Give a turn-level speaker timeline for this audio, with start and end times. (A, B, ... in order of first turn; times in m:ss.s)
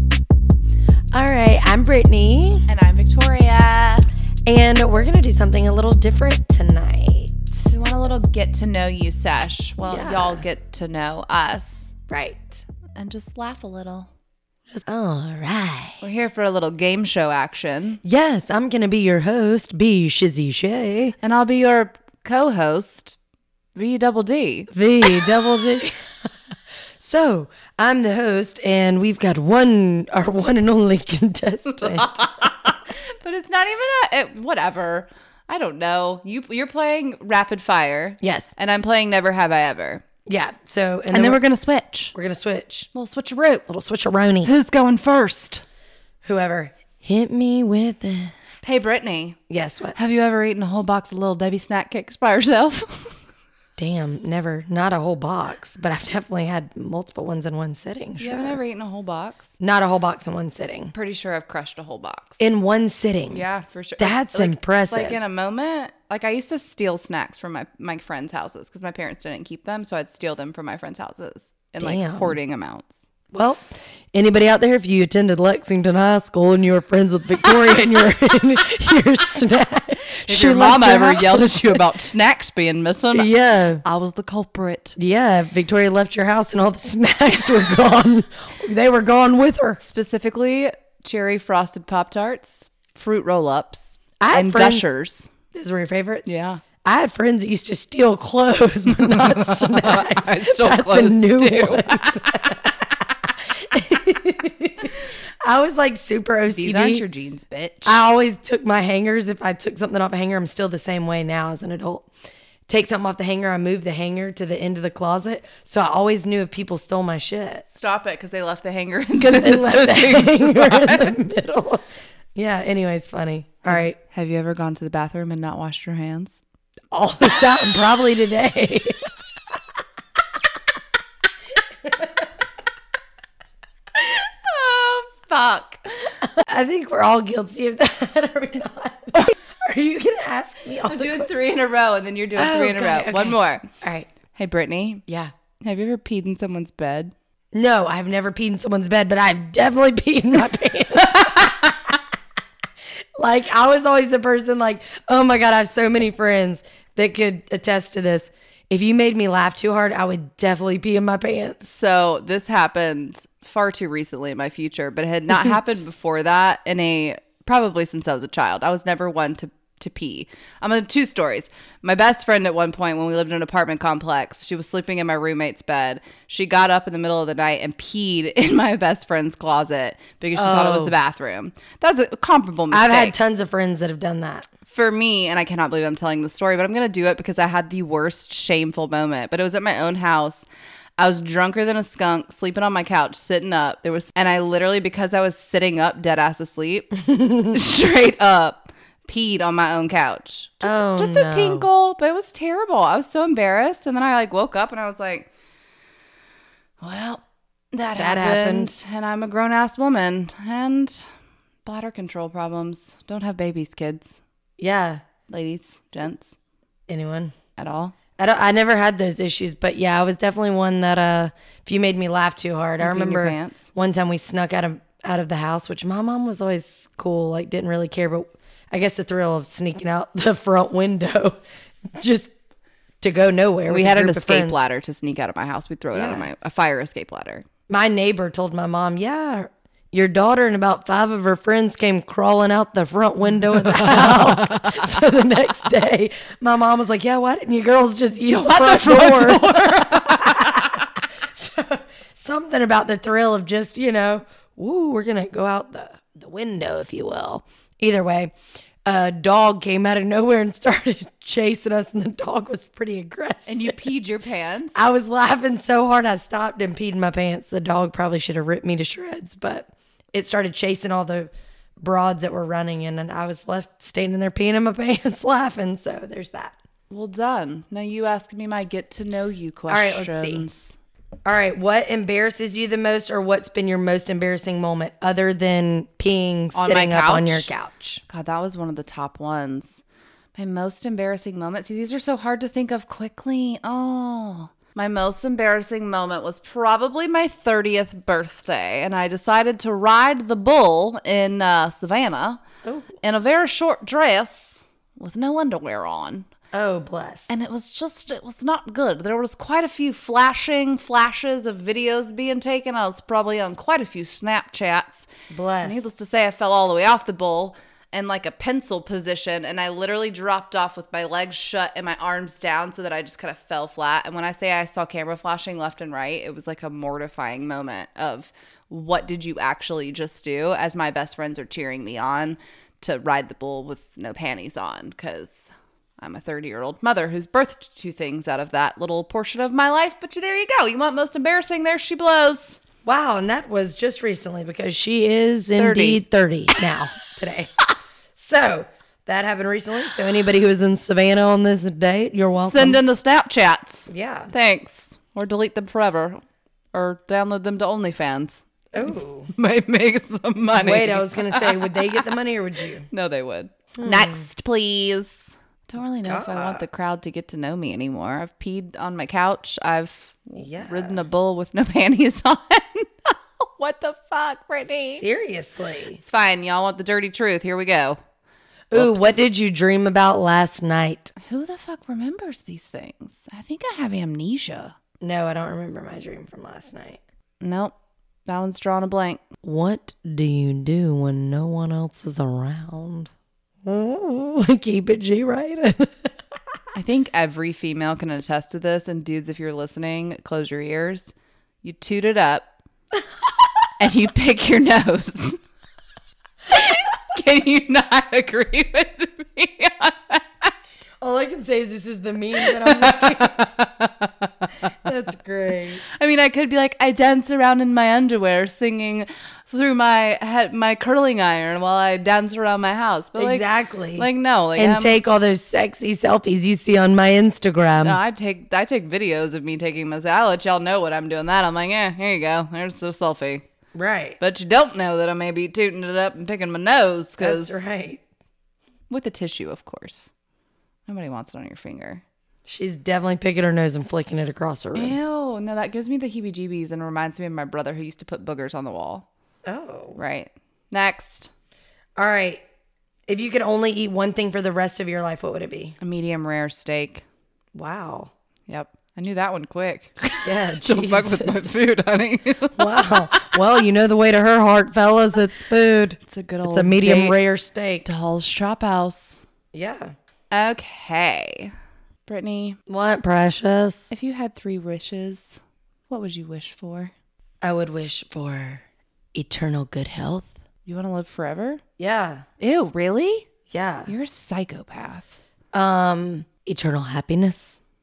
0:01.1-0:02.7 A
0:02.7-0:04.1 B
0:04.4-0:07.7 A
0:07.7-0:11.9 B
0:09.8-0:10.4 A
0:12.1-0:12.6 A
0:13.0-0:14.1 B
0:14.7-0:16.0 A
0:16.0-0:18.0 B
0:18.0-0:21.1 A
0:21.2-0:23.2 B
0:23.7-0:25.3 B
0:24.7-0:26.3 A
0:27.0-0:32.1 A
0:31.6-0:40.0 B
0:38.2-0:38.5 A
0:40.2-0:41.4 A
0:41.1-0:42.1 B
0:42.1-0:42.9 A
0:42.9-0:43.7 B
0:43.7-0:44.5 A
0:44.4-0:45.6 B
0:46.2-0:48.3 A
0:48.6-0:49.4 B
0:49.5-0:50.0 A
0:49.9-0:53.1 B
0:53.8-0:58.6 A
0:58.2-0:59.5 B
0:59.6-1:00.9 A
1:00.9-1:02.4 B
1:02.4-1:03.4 A
1:03.3-1:13.0 B
1:04.0-1:05.2 A
1:11.8-1:12.4 A
1:13.3-1:21.8 A
1:20.2-1:23.3 B
1:23.1-1:23.8 A
1:23.8-1:25.0 B
1:25.0-1:29.8 A
1:29.8-1:35.3 B
1:34.2-1:34.9 A
1:35.5-1:47.0 A
1:36.2-1:36.6 B
1:39.0-1:42.6 B
1:46.5-1:48.0 B
1:47.8-1:52.1 A
1:52.7-1:57.6 A
1:57.7-2:01.2 B
1:59.2-2:04.0 A
2:03.7-2:06.4 B
2:06.9-2:09.1 A
2:11.8-2:12.3 A
2:13.9-2:16.2 B
2:16.2-2:21.3 A
2:20.8-2:23.6 B
2:22.4-2:24.1 A
2:24.3-2:25.0 B
2:25.1-2:25.3 A
2:25.6-2:27.1 B
2:27.5-2:31.5 A
2:31.0-2:31.7 B
2:33.2-2:41.7 A
2:41.6-3:03.1 B
3:00.4-3:00.9 A
3:02.7-3:04.5 A
3:04.7-3:10.4 B
3:11.0-3:25.3 B
3:17.0-3:17.6 A
3:20.6-3:21.7 A
3:26.8-3:31.1 B
3:28.0-3:28.7 A
3:31.6-3:34.2 B
3:34.6-3:35.0 A
3:35.3-3:36.4 B
3:36.9-3:37.3 A
3:37.6-3:37.9 B
3:38.2-3:52.3 A
3:42.8-3:43.7 B
3:53.0-3:54.6 A
3:53.7-3:57.4 B
3:55.9-3:56.3 A
3:57.7-4:18.3 A
4:03.8-4:05.0 B
4:08.3-4:10.9 B
4:18.8-4:23.8 A
4:23.5-4:24.8 B
4:24.7-4:36.6 A
4:36.9-4:40.8 B
4:39.7-4:40.5 A
4:41.2-4:48.0 A
4:46.5-4:47.5 B
4:48.1-4:49.8 B
4:50.3-5:02.4 B
5:02.6-5:02.9 A
5:03.0-5:06.3 B
5:06.5-5:07.3 A
5:07.3-5:15.1 B
5:15.3-5:15.8 A
5:15.6-5:42.6 B
5:42.8-5:47.5 A
5:45.6-5:46.0 B
5:48.2-5:52.8 A
5:52.4-5:56.2 B
5:53.9-5:54.3 A
5:56.7-5:58.4 B
5:58.7-5:59.3 A
5:59.3-6:02.1 B
6:00.5-6:02.9 A
6:02.9-6:15.0 B
6:03.8-6:04.2 A
6:06.0-6:06.6 A
6:10.4-6:11.0 A
6:15.0-6:16.0 A
6:16.0-6:18.0 B
6:18.7-6:21.1 A
6:18.7-6:19.2 B
6:21.2-6:24.7 B
6:25.0-6:27.0 A
6:27.4-6:27.7 B
6:28.2-6:29.2 B
6:29.4-6:33.1 A
6:33.6-6:36.1 A
6:36.7-6:42.5 B
6:43.8-6:45.4 B
6:46.5-6:50.5 B
6:51.0-6:53.5 A
6:52.4-6:54.7 B
6:54.8-6:55.8 A
6:55.8-7:05.0 B
7:03.2-7:08.0 A
7:07.8-7:13.4 B
7:13.7-7:14.2 A
7:14.2-7:17.6 B
7:17.2-7:18.0 A
7:18.9-7:20.1 B
7:20.9-7:22.0 B
7:22.5-7:25.0 A
7:24.7-7:29.0 B
7:29.4-7:30.0 A
7:30.0-7:31.3 B
7:32.0-7:32.4 A
7:33.1-7:35.8 A
7:35.8-7:37.0 B
7:37.5-7:38.1 A
7:38.5-7:43.4 B
7:40.2-7:41.5 A
7:42.6-7:47.8 A
7:46.0-7:47.2 B
7:47.8-7:49.2 B
7:49.5-7:49.9 A
7:50.3-7:51.5 B
7:52.0-7:52.6 B
7:52.7-7:53.9 A
7:53.9-7:56.9 B
7:57.4-8:00.3 A
8:00.6-8:01.6 B
8:01.8-8:02.2 A
8:02.4-8:03.3 B
8:03.5-8:03.9 A
8:03.9-8:05.2 B
8:05.5-8:07.6 A